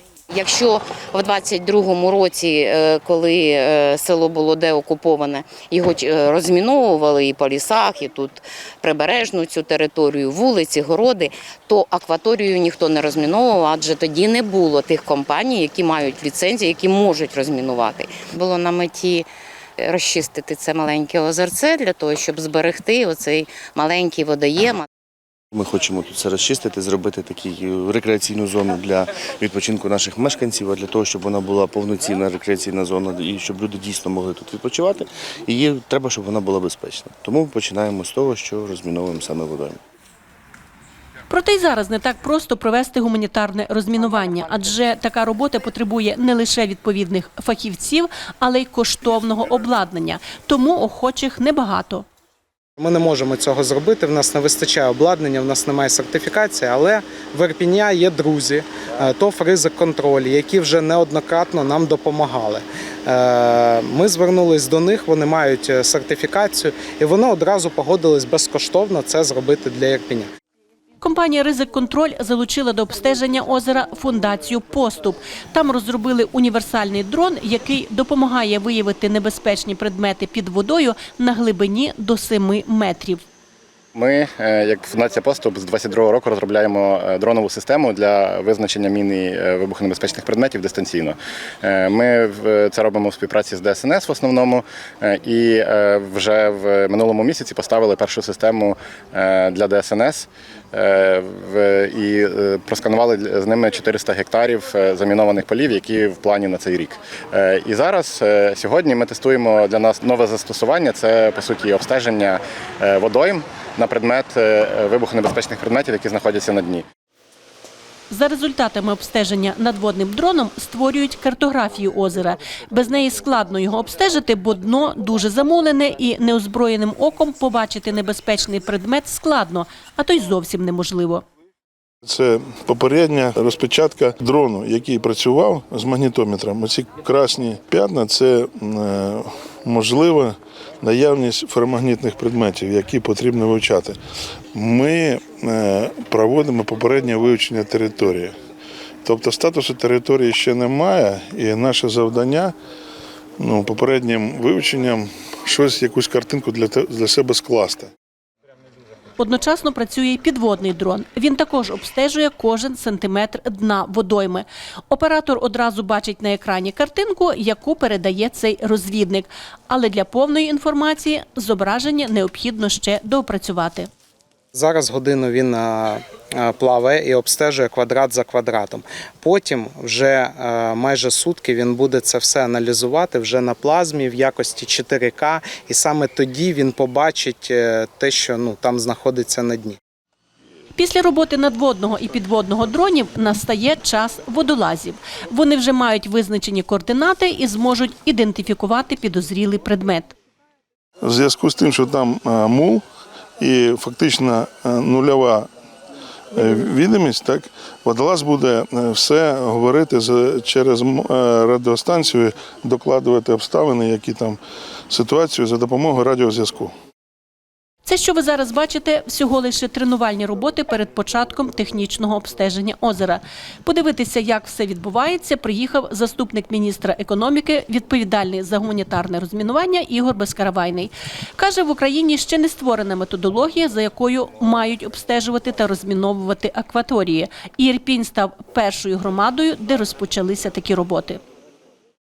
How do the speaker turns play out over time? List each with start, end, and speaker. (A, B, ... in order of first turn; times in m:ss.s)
0:00.3-0:19.3 A
0:19.8-0:24.8 A
0:25.5-0:39.8 B
0:41.3-0:52.0 C
0:52.8-1:10.3 D
1:11.0-1:23.2 C
1:23.9-1:56.8 E
1:58.1-2:11.2 C
2:12.0-2:24.0 F
2:24.5-2:28.3 F
2:29.0-2:32.5 F
2:33.4-2:37.9 F
2:39.2-2:53.9 C
2:54.5-3:09.8 D
3:10.7-3:20.1 C
3:21.0-3:22.8 F
3:23.4-3:25.5 F
3:26.3-3:36.7 F
3:37.8-4:01.2 C